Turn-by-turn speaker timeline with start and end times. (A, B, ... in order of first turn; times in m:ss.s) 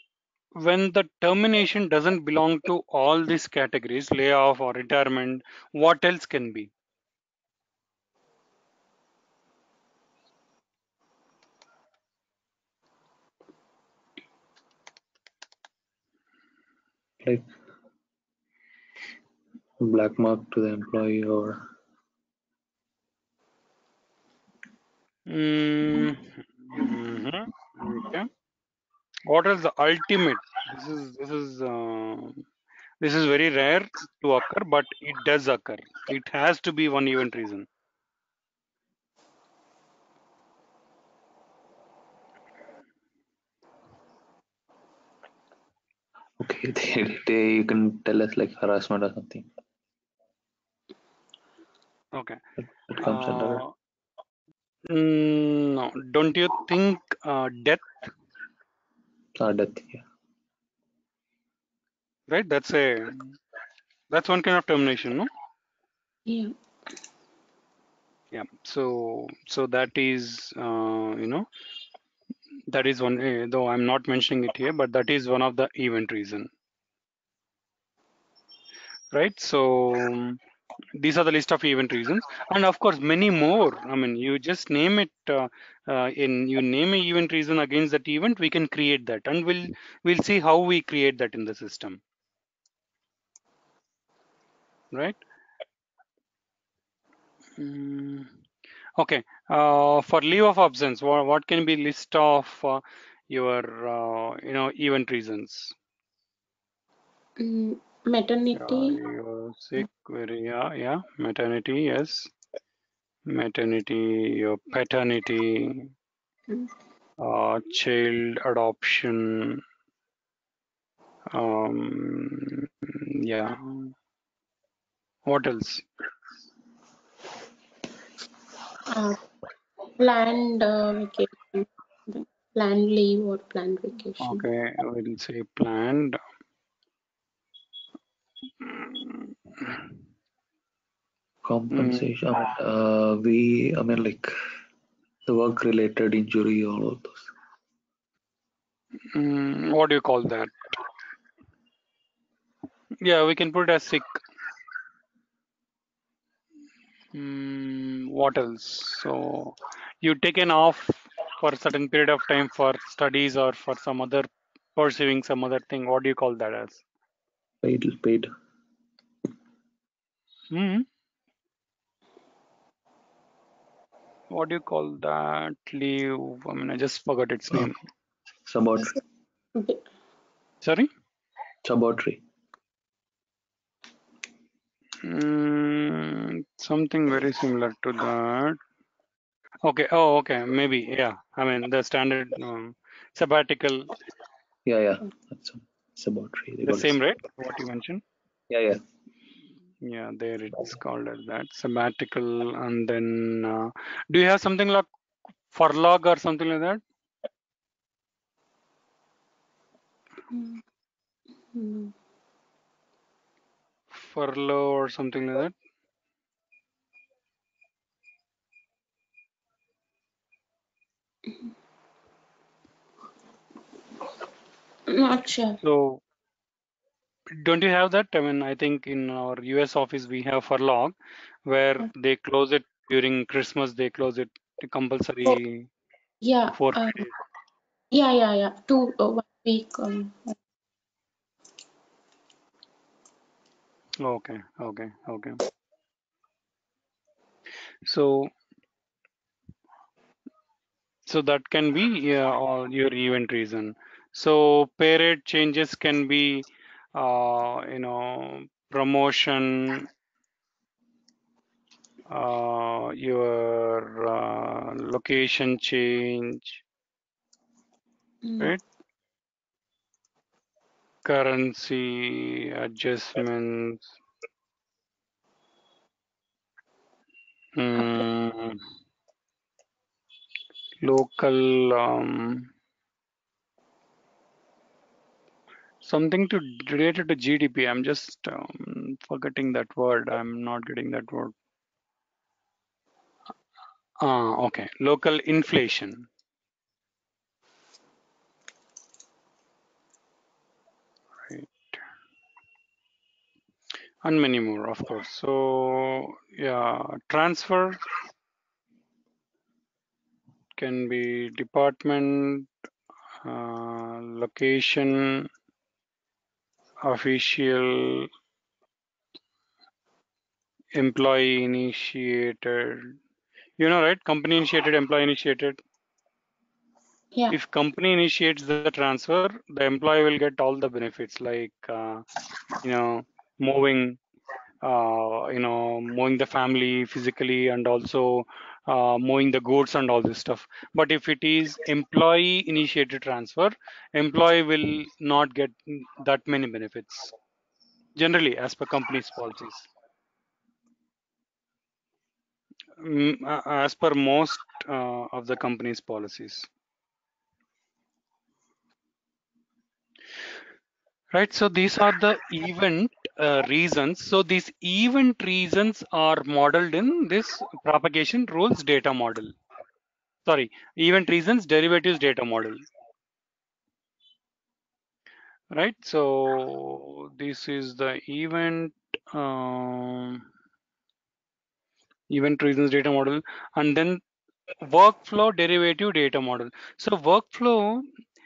0:00.6-0:06.7 A
0:17.2-0:17.5 B
0:19.8-0:21.7 B
0:25.3-0:28.3 A
0:29.3-0:32.4 A
0:33.0-0:37.7 A
0:46.4-0:49.5 B
0:52.1-0:52.4 A
0:52.9-0:53.6 B
0:53.0-0:53.7 A
0:54.9-0:58.0 A
0:59.3-1:00.0 B
1:02.3-1:03.4 A
1:04.1-1:05.3 A
1:06.3-1:06.5 C
1:08.3-1:11.4 A
1:12.7-1:16.5 A
1:19.1-1:20.4 A
1:21.0-1:32.0 A
1:34.9-1:35.2 A
1:37.6-1:38.3 A
1:39.0-1:45.7 A
1:47.4-1:49.0 C
1:48.5-1:52.3 A
1:53.3-1:55.9 A
1:57.2-1:59.6 A
2:01.3-2:03.9 A
2:05.3-2:05.8 A
2:08.9-2:09.2 C
2:10.0-2:14.4 C
2:14.2-2:16.2 A
2:18.6-2:19.8 A
2:21.4-2:24.3 B
2:21.7-2:22.1 A
2:25.2-2:27.3 B
2:29.1-2:30.6 A
2:33.0-2:34.2 A
2:37.1-2:46.8 A
2:47.6-2:48.3 B
2:50.5-2:50.9 A
2:54.3-2:57.8 A
2:58.4-2:59.0 B
2:59.6-2:59.8 C
3:00.6-3:00.9 A
3:01.6-3:02.2 B
3:05.0-3:08.6 A
3:09.6-3:13.9 A
3:14.6-3:17.0 B
3:16.6-3:18.0 A
3:18.5-3:18.8 B
3:19.8-3:24.9 A
3:25.5-3:26.8 A
3:30.3-3:30.6 C
3:31.5-3:31.9 C
3:33.9-3:35.5 A
3:44.9-3:45.6 C
3:45.6-3:46.0 A
3:47.3-3:51.0 A
3:51.4-3:55.7 A
3:56.2-3:57.0 C
3:56.5-3:57.1 A
3:57.9-4:00.3 C
4:04.0-4:05.4 A
4:07.8-4:08.3 A
4:11.0-4:19.9 A
4:22.1-4:26.6 A
4:28.2-4:28.5 C
4:31.0-4:33.9 A
4:37.6-4:38.6 A
4:40.8-4:42.5 A
4:45.8-4:51.3 A
4:54.0-4:56.1 A
5:01.3-5:01.8 A
5:04.0-5:07.8 A
5:10.6-5:12.5 A
5:13.2-5:15.3 A
5:16.8-5:18.1 A
5:20.7-5:23.0 A
5:23.6-5:25.6 A
5:27.3-5:32.0 A
5:32.6-5:34.0 A
5:34.6-5:47.1 A
5:48.0-5:49.7 A
5:52.8-5:56.5 A
6:01.1-6:09.3 A
6:10.2-6:12.6 A
6:15.5-6:20.2 A
6:22.1-6:24.0 A
6:24.6-6:27.8 A